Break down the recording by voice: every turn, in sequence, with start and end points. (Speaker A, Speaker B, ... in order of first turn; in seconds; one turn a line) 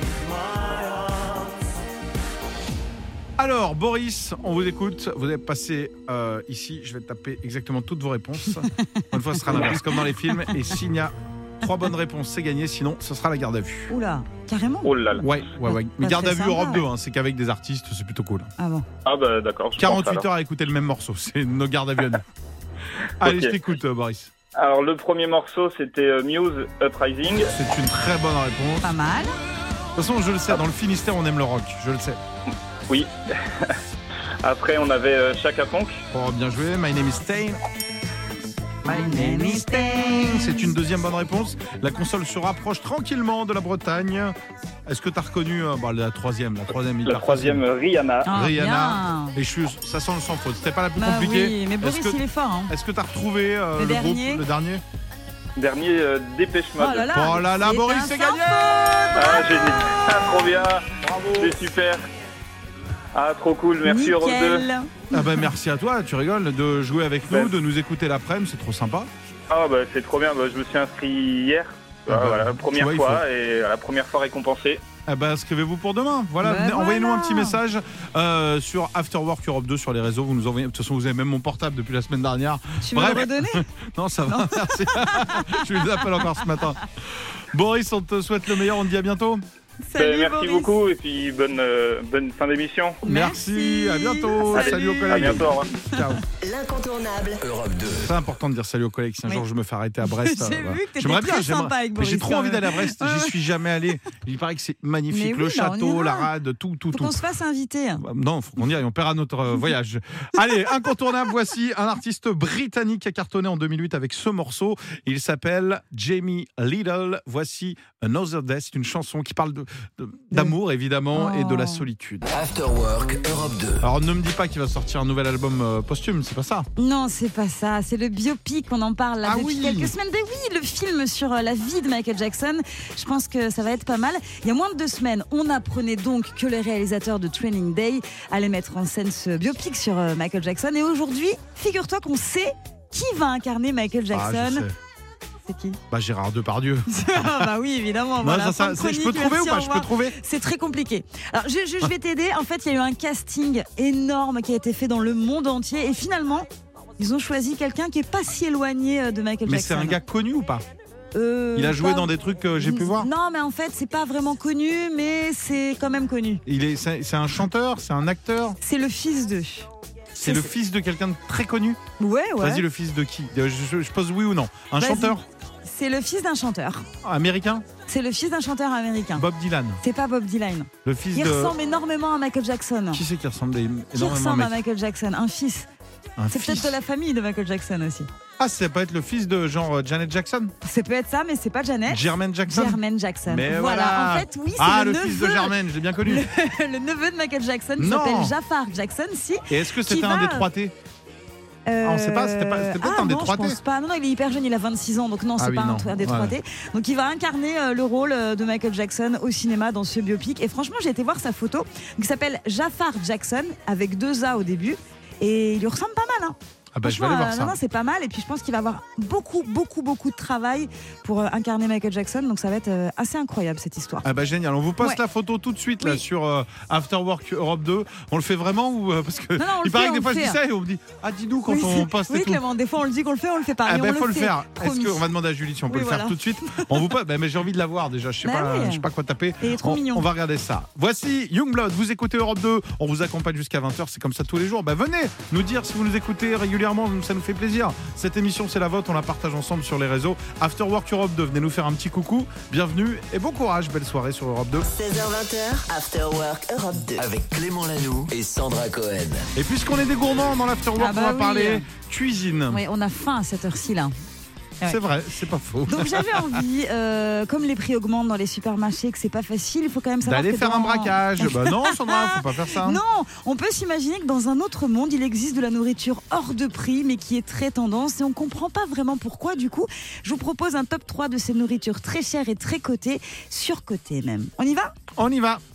Speaker A: 3.4-13.9
Speaker B: 8.6-10.7
Speaker B: 13.9-15.2
Speaker C: 14.8-15.3
Speaker A: 15.1-18.5
Speaker B: 15.7-16.8
Speaker B: 18.6-18.9
Speaker C: 19.0-20.2
Speaker A: 19.8-22.2
Speaker A: 23.2-24.3
Speaker C: 23.2-23.5
Speaker C: 24.6-27.5
Speaker A: 27.5-28.8
Speaker B: 28.8-29.4
Speaker A: 29.9-32.2
Speaker C: 32.9-33.8
Speaker C: 34.4-36.0
Speaker A: 36.1-37.6
Speaker A: 38.8-47.6
Speaker B: 38.9-40.7
Speaker C: 47.0-48.3
Speaker B: 48.2-49.4
Speaker A: 48.3-54.8
Speaker B: 51.0-52.7
Speaker B: 53.8-54.4
Speaker C: 55.6-57.1
Speaker B: 56.8-60.0
Speaker A: 57.1-59.1
Speaker C: 59.1-62.0
Speaker C: 63.1-64.6
Speaker B: 63.8-65.5
Speaker A: 65.1-69.1
Speaker C: 67.3-67.5
Speaker C: 69.5-74.8
Speaker A: 72.1-73.2
Speaker A: 75.1-89.4
Speaker B: 76.4-77.6
Speaker B: 82.8-83.6
Speaker B: 84.2-86.7
Speaker B: 89.8-90.7
Speaker C: 90.0-93.0
Speaker B: 93.0-96.2
Speaker A: 93.0-96.2
Speaker C: 94.5-95.7
Speaker D: 96.4-97.4
Speaker E: 97.4-98.1
Speaker A: 98.0-107.2
Speaker B: 100.0-103.4
Speaker B: 105.1-106.3
Speaker B: 106.9-108.0
Speaker A: 108.0-122.3
Speaker B: 121.1-121.8
Speaker E: 122.3-123.9
Speaker A: 123.8-126.7
Speaker B: 126.8-144.7
Speaker A: 129.2-129.9
Speaker A: 144.1-144.7
Speaker B: 145.4-145.8
Speaker A: 145.9-147.5
Speaker B: 146.9-156.5
Speaker A: 148.2-150.2
Speaker B: 157.0-160.0
Speaker A: 159.4-160.6
Speaker B: 161.1-166.4
Speaker A: 161.5-163.1
Speaker A: 166.4-168.6
Speaker B: 168.6-169.7
Speaker A: 170.1-171.8
Speaker B: 170.2-170.5
Speaker B: 172.0-172.6
Speaker A: 172.4-175.2
Speaker B: 174.8-176.9
Speaker A: 177.0-177.7
Speaker B: 177.8-179.2
Speaker A: 179.2-179.8
Speaker B: 179.8-183.0
Speaker A: 180.8-181.6
Speaker A: 182.9-184.6
Speaker B: 183.9-185.7
Speaker A: 186.2-186.8
Speaker B: 186.3-188.1
Speaker A: 188.4-190.5
Speaker B: 190.6-200.5
Speaker A: 191.9-196.2
Speaker A: 197.8-198.3
Speaker A: 199.5-200.7
Speaker B: 201.7-224.1
Speaker A: 201.8-203.6
Speaker A: 205.4-206.3
Speaker A: 216.7-217.6
Speaker A: 224.0-232.4
Speaker B: 229.4-230.4
Speaker B: 231.4-235.1
Speaker A: 233.6-254.7
Speaker B: 235.7-236.8
Speaker B: 238.2-238.8
Speaker B: 239.4-240.1
Speaker D: 254.7-257.0
Speaker E: 257.0-259.3
Speaker A: 259.3-262.6
Speaker B: 260.8-261.6
Speaker B: 262.5-263.9
Speaker A: 264.6-266.4
Speaker B: 265.6-284.8
Speaker A: 270.0-272.8
Speaker A: 285.0-285.4